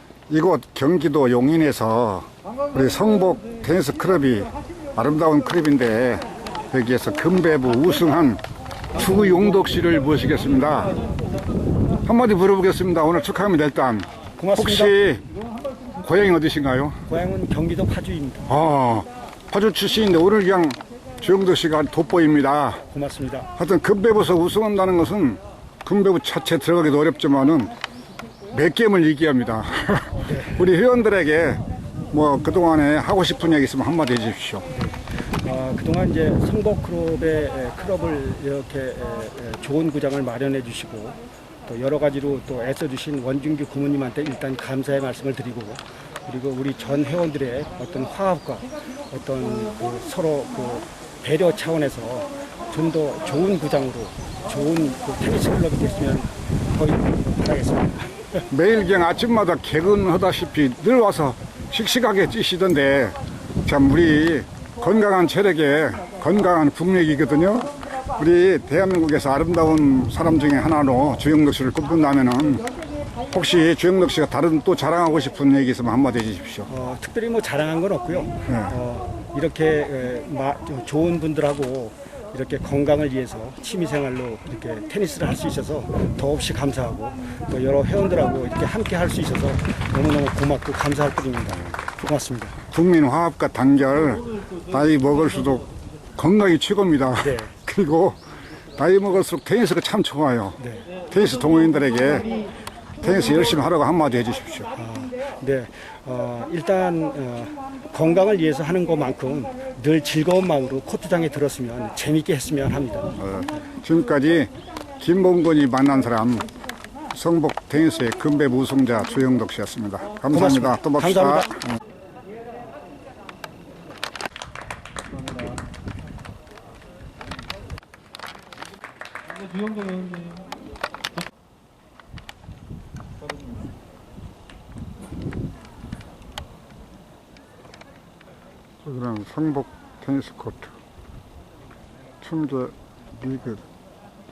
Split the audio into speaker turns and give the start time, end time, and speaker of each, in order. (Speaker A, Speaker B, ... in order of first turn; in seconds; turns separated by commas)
Speaker A: 0.3-8.4, Speaker A: 8.9-11.0, Speaker A: 12.1-15.3, Speaker B: 14.4-15.0, Speaker A: 16.0-17.0, Speaker B: 17.1-18.5, Speaker A: 18.5-22.8, Speaker B: 22.9-23.5, Speaker A: 23.6-27.7, Speaker A: 28.5-34.7, Speaker B: 30.2-30.6, Speaker B: 34.7-58.1, Speaker A: 58.5-72.7, Speaker A: 73.3-76.7, Speaker B: 76.7-92.6, Speaker A: 78.5-78.7, Speaker A: 92.7-98.2, Speaker B: 97.2-97.5, Speaker A: 98.8-102.3, Speaker B: 100.6-100.9, Speaker A: 103.0-104.7, Speaker B: 104.7-113.1, Speaker A: 113.2-116.5, Speaker A: 117.1-121.7, Speaker B: 120.3-121.5, Speaker A: 138.8-140.8, Speaker A: 142.2-143.7